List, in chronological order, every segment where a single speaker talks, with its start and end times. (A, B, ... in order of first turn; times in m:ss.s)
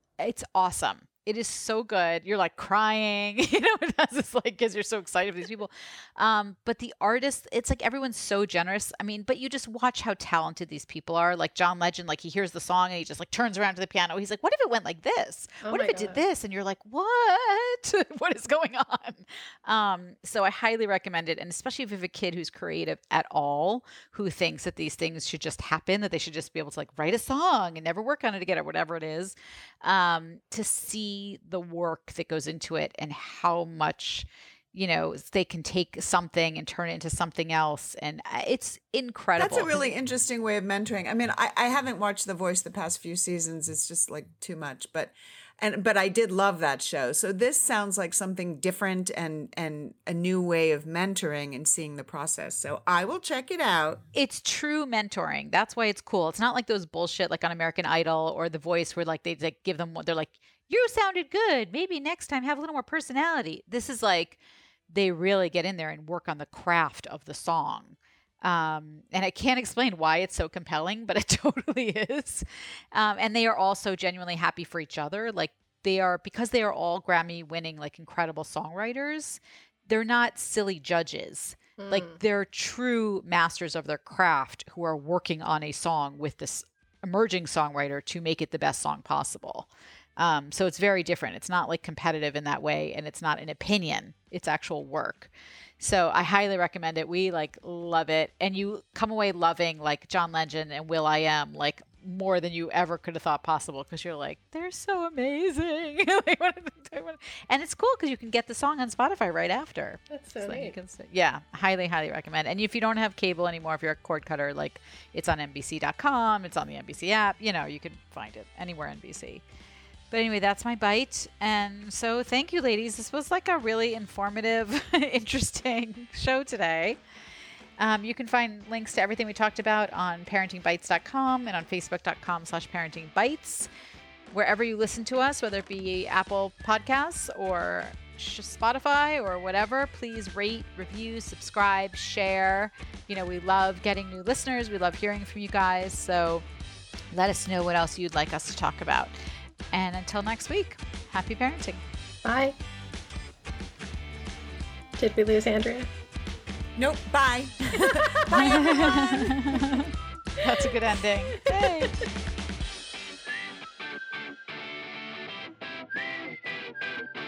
0:00.2-0:39.8 A
0:15.6-0:16.2 B
0:39.4-0:54.0 C
0:54.1-1:04.4 A
1:04.9-1:59.4 A
1:21.8-1:22.2 B
1:50.1-1:50.7 B
2:00.1-2:07.0 A
2:07.8-2:13.7 A
2:14.3-2:26.4 A
2:27.1-2:29.2 A
2:29.7-2:31.8 A
2:32.2-2:32.6 B
2:35.0-2:35.9 B
2:36.8-2:39.3 C
2:37.8-2:39.2 B
2:38.3-2:42.0 A
2:41.6-2:41.9 B